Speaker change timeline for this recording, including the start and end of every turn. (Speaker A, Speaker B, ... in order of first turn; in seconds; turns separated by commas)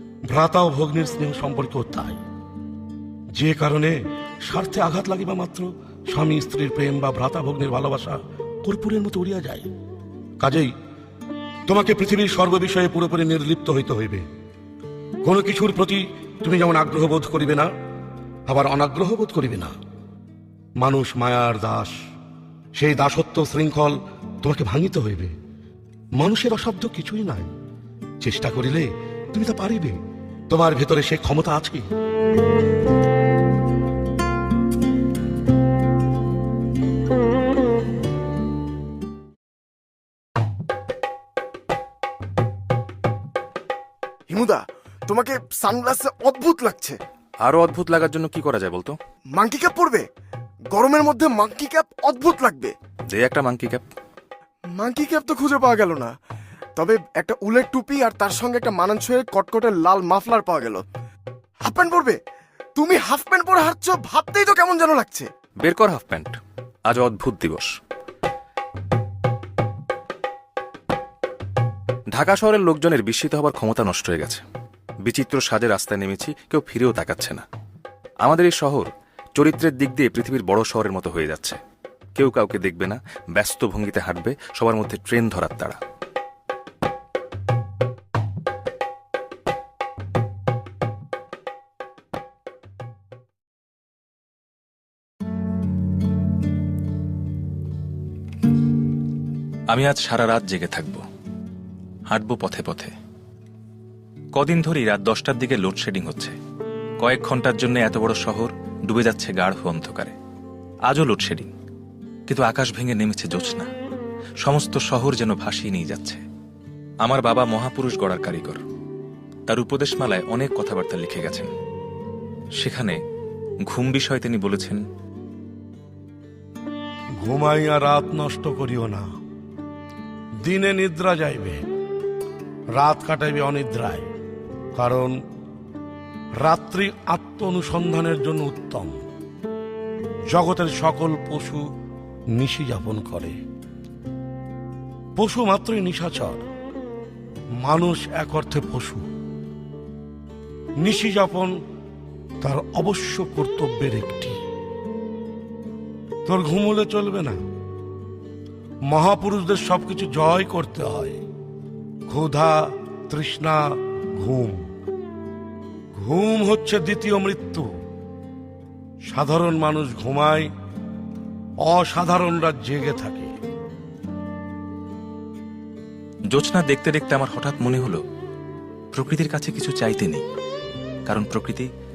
Speaker A: 0.3-2.2, Speaker A: 3.4-9.7, Speaker A: 10.4-10.7, Speaker A: 11.7-14.3, Speaker A: 15.2-17.7, Speaker A: 18.5-19.7, Speaker A: 20.8-22.0, Speaker A: 22.8-25.3, Speaker A: 26.2-27.5, Speaker A: 28.2-30.0, Speaker A: 30.5-31.9, Speaker B: 44.3-47.0, Speaker C: 47.4-49.0, Speaker B: 49.4-50.0, Speaker B: 50.7-52.7, Speaker C: 53.1-53.8, Speaker B: 54.8-56.1, Speaker B: 56.8-60.8, Speaker B: 61.6-62.2, Speaker B: 62.8-65.3, Speaker C: 65.6-66.4, Speaker C: 66.9-67.7, Speaker C: 72.1-74.4, Speaker C: 75.1-77.4, Speaker C: 78.2-81.6, Speaker C: 82.2-85.8, Speaker C: 99.7-101.0, Speaker C: 102.1-102.9, Speaker C: 104.3-106.4, Speaker C: 107.0-110.2, Speaker C: 110.9-111.5, Speaker C: 112.3-113.7, Speaker C: 114.4-116.2, Speaker C: 117.0-118.6, Speaker C: 119.5-121.5, Speaker C: 122.6-123.0, Speaker C: 123.7-124.8, Speaker A: 127.2-129.1, Speaker A: 130.4-131.7, Speaker A: 132.8-134.1, Speaker A: 134.8-135.2, Speaker A: 136.4-139.0, Speaker A: 140.3-141.6, Speaker A: 142.4-143.4, Speaker A: 145.2-146.4, Speaker A: 147.6-149.1, Speaker A: 150.8-151.6, Speaker A: 152.4-154.4, Speaker A: 156.3-157.4, Speaker A: 158.9-161.2, Speaker A: 162.1-163.6, Speaker A: 164.2-164.6, Speaker A: 166.0-167.7, Speaker A: 169.1-170.5, Speaker A: 171.7-173.3, Speaker C: 176.3-178.0, Speaker C: 178.9-180.2, Speaker C: 181.1-181.7